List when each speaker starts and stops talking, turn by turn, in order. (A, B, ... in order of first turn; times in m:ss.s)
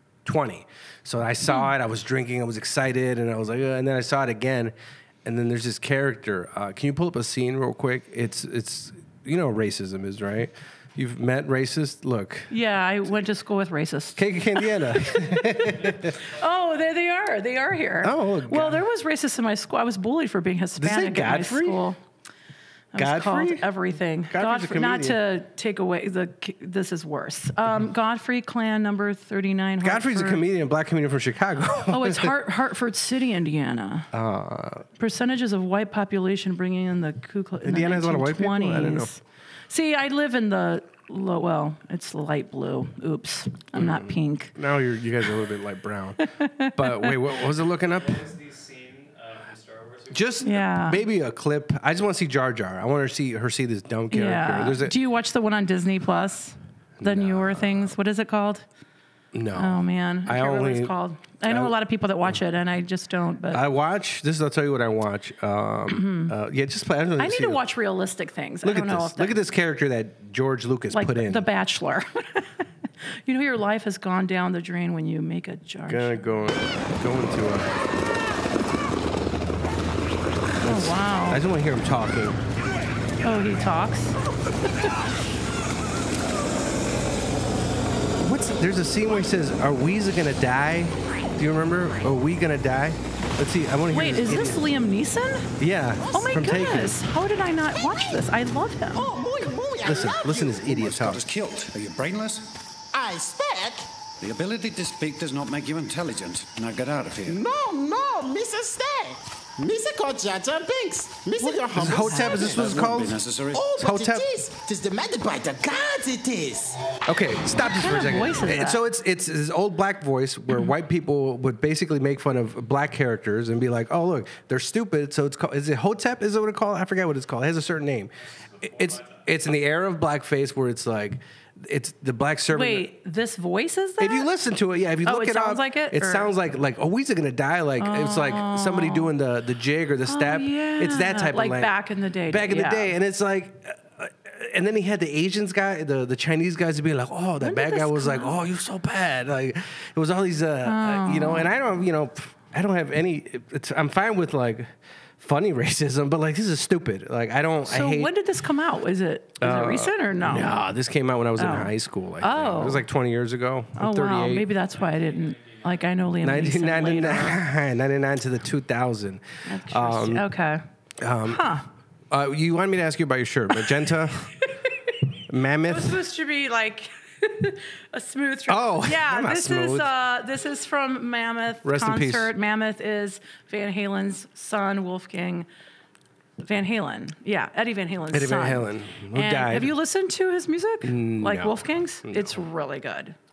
0:00.2-0:04.7 A
0:05.2-0:12.5 A
0:12.5-0:22.0 B
0:14.2-0:16.2 A
0:18.0-0:18.8 A
0:20.8-0:21.8 A
0:22.9-0:30.4 B
0:23.0-0:23.7 A
0:24.3-0:25.2 A
0:29.8-0:32.4 A
0:31.9-0:34.1 B
0:34.1-0:34.9 A
0:35.0-0:39.2 B
0:37.6-0:39.1 A
0:39.7-0:44.5 B
0:43.7-0:48.3 A
0:46.2-0:47.2 B
0:47.9-0:50.3 C
0:50.1-0:54.9 A
0:50.4-0:51.0 B
0:54.1-0:58.6 B
0:57.0-0:57.9 A
0:59.3-1:00.9 A
0:59.5-1:03.6 B
1:01.4-1:01.7 A
1:03.5-1:07.6 A
1:05.9-1:06.3 B
1:07.2-1:09.3 B
1:08.6-1:11.4 A
1:10.9-1:12.7 B
1:13.2-1:16.2 B
1:15.9-1:17.7 A
1:20.6-1:21.4 B
1:20.6-1:22.4 A
1:23.2-1:24.9 B
1:28.2-1:34.7 A
1:33.9-1:35.5 B
1:35.6-1:37.0 A
1:36.1-1:39.1 B
1:38.9-1:41.0 D
1:39.8-1:41.3 A
1:40.9-1:42.5 E
1:42.9-1:43.9 D
1:44.2-1:47.4 E
1:47.2-1:52.8 D
1:51.4-1:53.2 A
1:51.5-1:52.7 B
1:52.6-1:53.6 E
1:53.5-1:56.9 D
1:53.7-1:54.3 A
1:57.0-2:08.1 A
1:57.6-1:58.8 B
2:08.6-2:09.2 C
2:08.6-2:12.8 A
2:12.5-2:14.3 B
2:14.0-2:21.7 A
2:15.0-2:16.3 B
2:17.8-2:19.1 B
2:20.0-2:22.9 B
2:22.3-2:38.1 A
2:27.4-2:28.3 B
2:30.6-2:31.5 B
2:37.6-2:40.6 B
2:39.4-2:44.4 A
2:41.4-2:42.8 B
2:43.8-2:47.4 B
2:44.7-2:46.0 C
2:46.2-2:50.2 A
2:49.4-2:50.6 B
2:51.0-2:51.4 A
2:51.2-2:51.6 B
2:52.1-2:54.4 A
2:54.4-2:55.0 B
2:55.3-2:56.0 A
2:55.6-3:05.5 B
2:58.5-2:59.9 A
3:01.6-3:02.3 A
3:06.4-3:13.2 B
3:08.1-3:09.7 A
3:10.8-3:12.3 A